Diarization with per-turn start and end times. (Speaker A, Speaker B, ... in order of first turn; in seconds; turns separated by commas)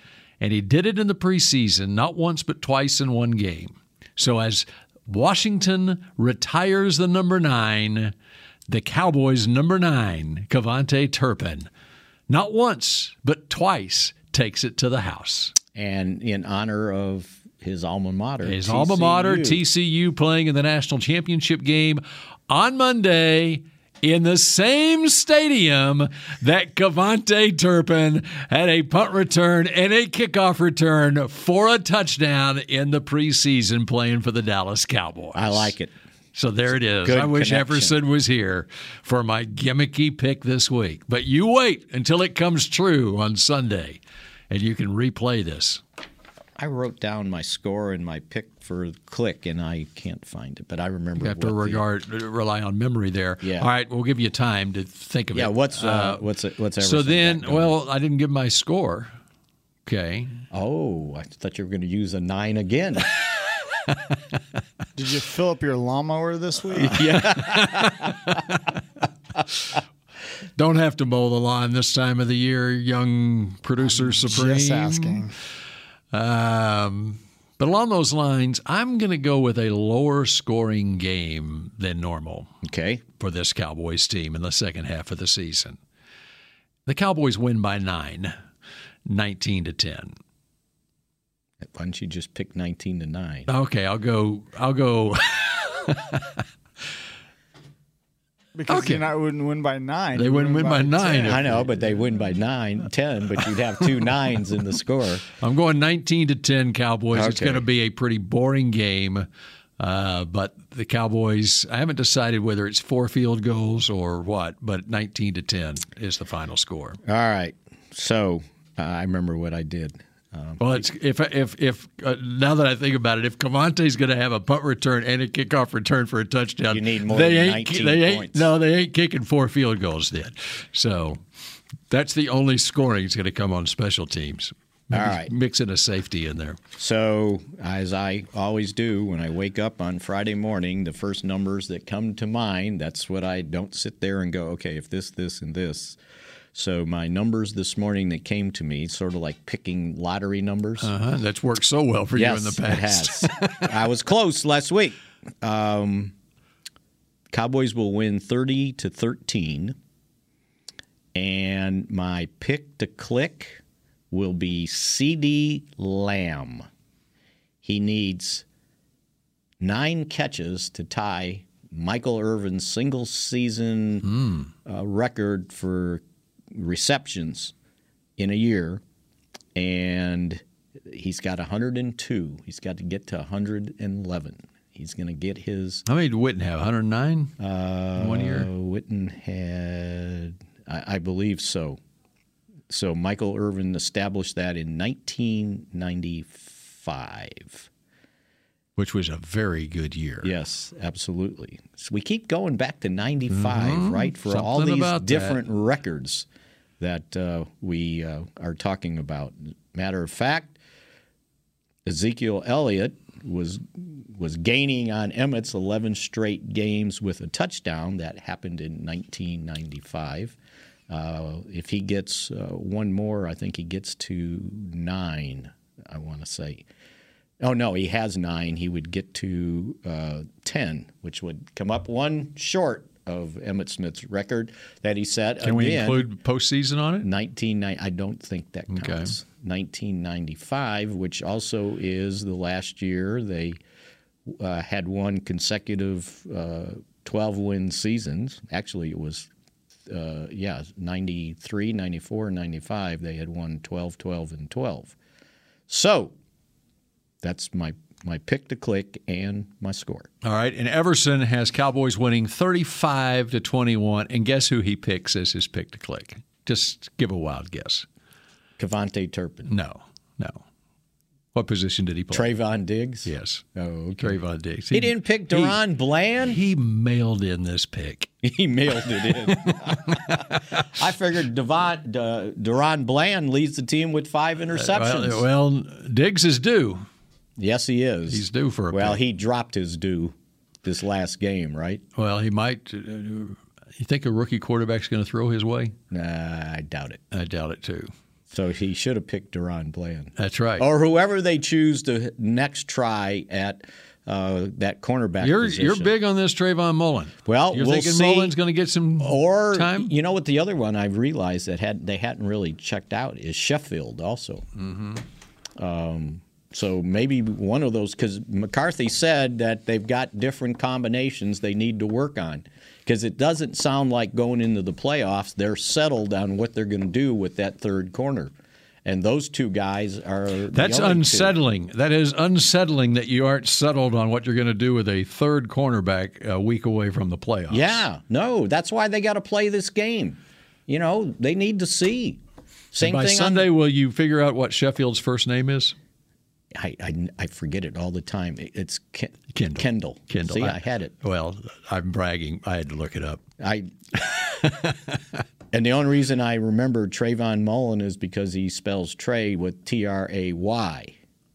Speaker A: 0.4-8.1, Speaker A: 8.7-11.7, Speaker A: 12.3-15.5, Speaker B: 15.7-19.6, Speaker A: 18.4-35.8, Speaker B: 35.3-35.9, Speaker A: 36.3-45.8, Speaker B: 37.0-38.0, Speaker B: 46.6-51.8, Speaker A: 51.2-56.2, Speaker B: 53.4-53.7, Speaker B: 55.3-57.7, Speaker A: 56.8-59.1, Speaker A: 59.9-60.3, Speaker B: 60.5-63.1, Speaker A: 63.9-64.2, Speaker C: 65.0-67.0, Speaker B: 66.8-68.2, Speaker A: 67.1-68.1, Speaker A: 70.5-75.3, Speaker C: 73.9-75.3, Speaker A: 76.1-82.5, Speaker B: 82.6-83.0, Speaker A: 83.2-85.8, Speaker A: 86.8-88.3, Speaker A: 89.0-90.2, Speaker B: 91.7-93.5, Speaker A: 93.5-96.4, Speaker C: 98.5-101.7, Speaker A: 98.7-99.0, Speaker A: 100.2-101.4, Speaker B: 101.2-105.3, Speaker A: 105.4-109.3, Speaker B: 107.1-107.6, Speaker A: 109.8-117.0, Speaker B: 117.0-120.8, Speaker A: 120.6-131.2, Speaker B: 126.7-128.5, Speaker A: 131.9-136.6, Speaker B: 134.9-135.3, Speaker B: 136.8-146.0, Speaker B: 146.5-150.9, Speaker A: 150.8-153.7, Speaker B: 152.1-156.1, Speaker B: 157.3-159.8, Speaker B: 161.1-163.6, Speaker B: 164.1-166.7, Speaker B: 167.6-168.4, Speaker B: 169.6-174.1, Speaker A: 174.0-174.5, Speaker B: 174.7-176.0, Speaker B: 176.5-177.5, Speaker B: 178.2-178.8, Speaker B: 179.6-185.8, Speaker A: 185.8-187.3, Speaker B: 187.4-191.8, Speaker A: 187.9-188.5, Speaker B: 192.7-197.7, Speaker A: 198.8-200.3, Speaker B: 200.2-206.2, Speaker A: 203.3-205.4, Speaker B: 206.8-210.6, Speaker B: 211.8-220.3, Speaker B: 220.9-226.6, Speaker B: 227.4-236.1, Speaker A: 235.4-237.1, Speaker B: 237.0-243.6, Speaker A: 238.7-239.1, Speaker B: 244.3-249.3, Speaker B: 249.9-254.9, Speaker B: 255.7-256.1, Speaker B: 257.2-260.1, Speaker A: 260.2-267.9, Speaker B: 268.6-269.5, Speaker A: 269.5-270.4, Speaker A: 271.3-272.3, Speaker B: 272.1-274.2, Speaker A: 273.0-273.4, Speaker A: 274.0-275.6, Speaker B: 274.7-276.4, Speaker A: 276.2-278.1, Speaker B: 278.2-285.2, Speaker A: 279.0-280.6, Speaker A: 284.5-286.9, Speaker B: 287.4-291.8, Speaker A: 288.1-289.0, Speaker A: 291.9-295.8, Speaker B: 295.9-297.0, Speaker A: 297.1-297.9, Speaker B: 298.3-305.9, Speaker A: 300.2-300.6, Speaker A: 305.2-309.9, Speaker B: 307.2-308.3, Speaker B: 309.0-314.4, Speaker A: 314.6-315.0, Speaker B: 315.6-328.3, Speaker B: 328.8-331.4, Speaker A: 330.5-337.8, Speaker B: 337.5-342.2, Speaker B: 342.7-343.5, Speaker A: 342.8-345.8, Speaker B: 346.5-350.9, Speaker A: 349.3-353.2, Speaker B: 353.4-354.3, Speaker A: 354.4-355.0, Speaker B: 355.5-360.9